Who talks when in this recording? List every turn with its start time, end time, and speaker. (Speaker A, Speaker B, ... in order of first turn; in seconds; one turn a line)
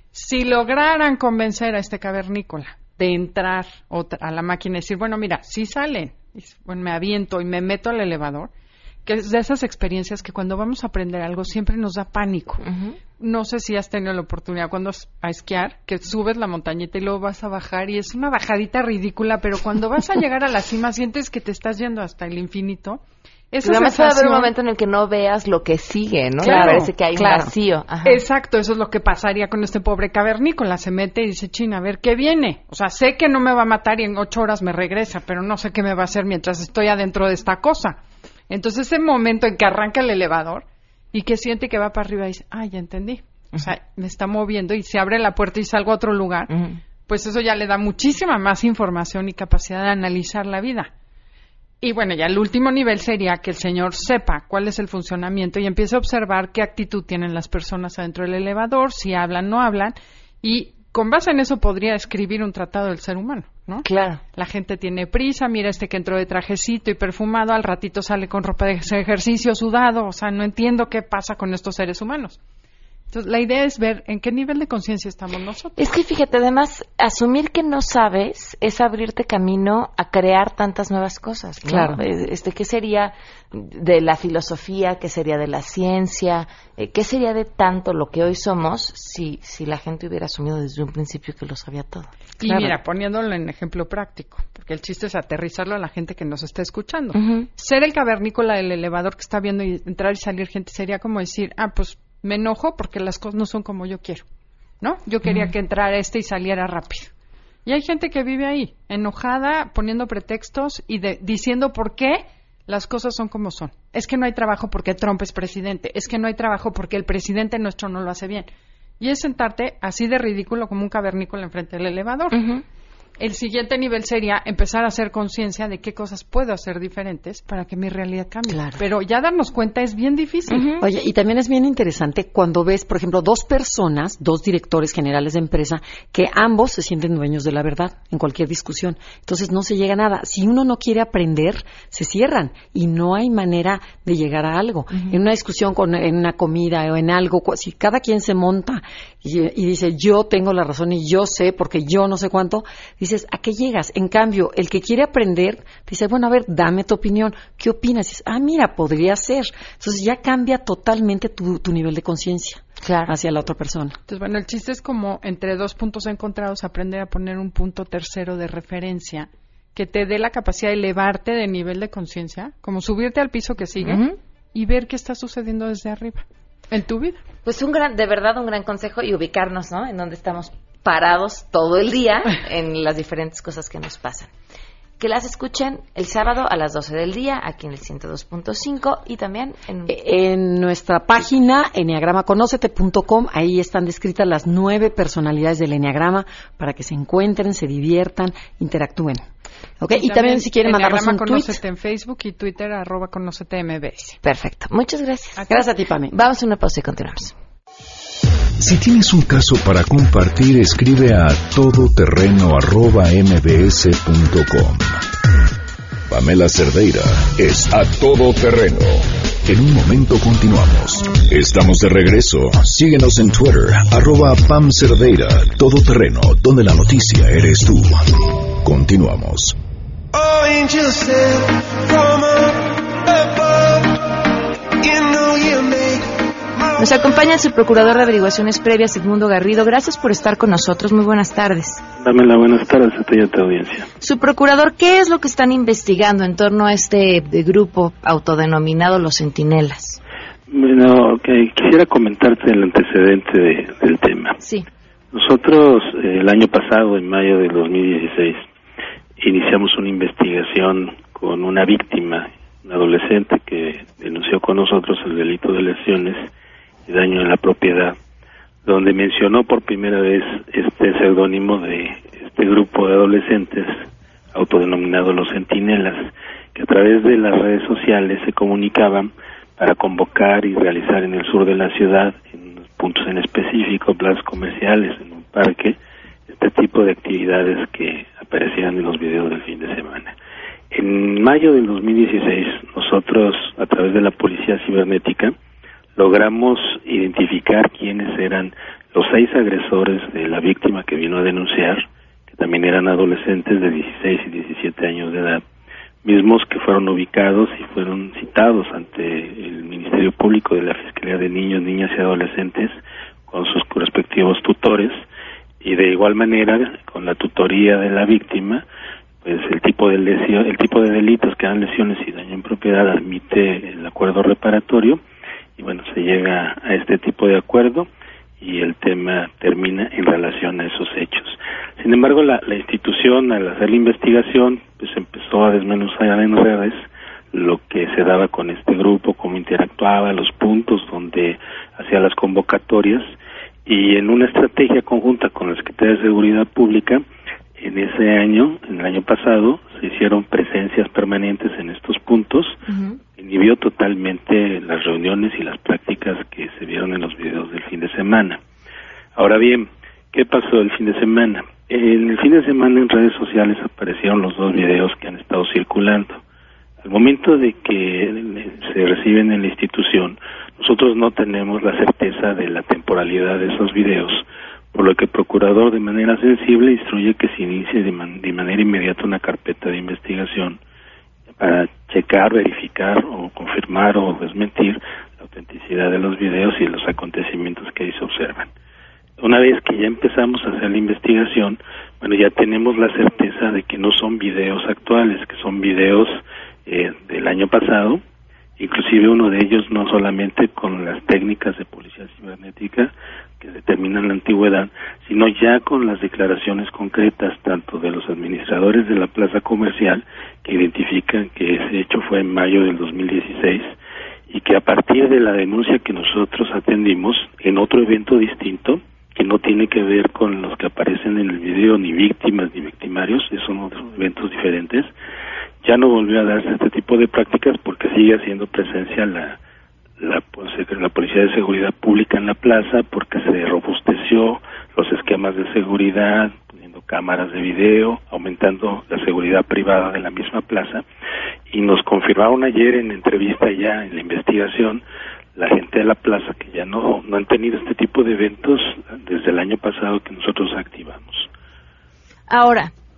Speaker A: 0.1-8.5
Speaker A: 9.0-12.6
Speaker B: 12.6-12.9
Speaker A: 13.2-24.5
Speaker B: 23.6-28.2
Speaker A: 26.4-27.0
Speaker C: 26.4-27.5
Speaker A: 28.0-46.5
Speaker A: 47.1-50.9
Speaker A: 51.8-72.4
Speaker B: 63.8-64.2
Speaker A: 73.1-75.8
Speaker B: 75.8-92.8
Speaker C: 81.6-82.0
Speaker A: 92.4-104.2
Speaker B: 97.1-97.5
Speaker A: 104.8-107.1
Speaker A: 107.6-118.5
Speaker A: 119.0-122.4
Speaker B: 122.3-122.6
Speaker A: 123.2-130.7
Speaker C: 128.5-128.8
Speaker B: 130.5-130.8
Speaker C: 130.7-164.0
Speaker B: 162.8-163.1
Speaker A: 164.1-177.2
Speaker B: 173.8-174.2
Speaker B: 177.4-184.3
Speaker B: 185.0-189.9
Speaker C: 189.8-199.2
Speaker C: 199.8-201.6
Speaker A: 199.9-204.2
Speaker B: 204.2-205.6
Speaker A: 205.4-205.6
Speaker C: 205.5-206.1
Speaker B: 206.1-207.3
Speaker D: 208.6-215.0
Speaker D: 216.1-229.6
Speaker E: 230.1-234.0
Speaker E: 234.8-236.1
Speaker B: 236.8-241.8
Speaker F: 242.0-243.9
Speaker B: 244.0-250.0
Speaker F: 250.5-254.4
Speaker B: 254.4-254.7
Speaker F: 255.1-258.4
Speaker F: 259.2-266.3
Speaker F: 266.9-267.9
Speaker F: 268.6-285.8
Speaker F: 286.3-290.1
Speaker F: 290.7-295.3
Speaker F: 295.9-305.4
Speaker F: 306.0-315.0
Speaker F: 315.6-318.6
Speaker F: 319.2-325.0
Speaker F: 325.6-327.9
Speaker F: 328.4-336.8
Speaker F: 337.3-343.1
Speaker F: 343.6-347.0
Speaker F: 347.6-352.6
Speaker B: 352.6-353.0
Speaker F: 353.2-358.4
Speaker F: 359.1-366.2
Speaker F: 366.8-380.6
Speaker F: 381.4-388.5
Speaker F: 389.2-398.0
Speaker F: 398.6-413.7
Speaker F: 414.3-424.9
Speaker F: 425.6-429.4
Speaker F: 430.0-440.8
Speaker F: 441.5-444.8
Speaker F: 445.4-451.3
Speaker B: 452.3-452.7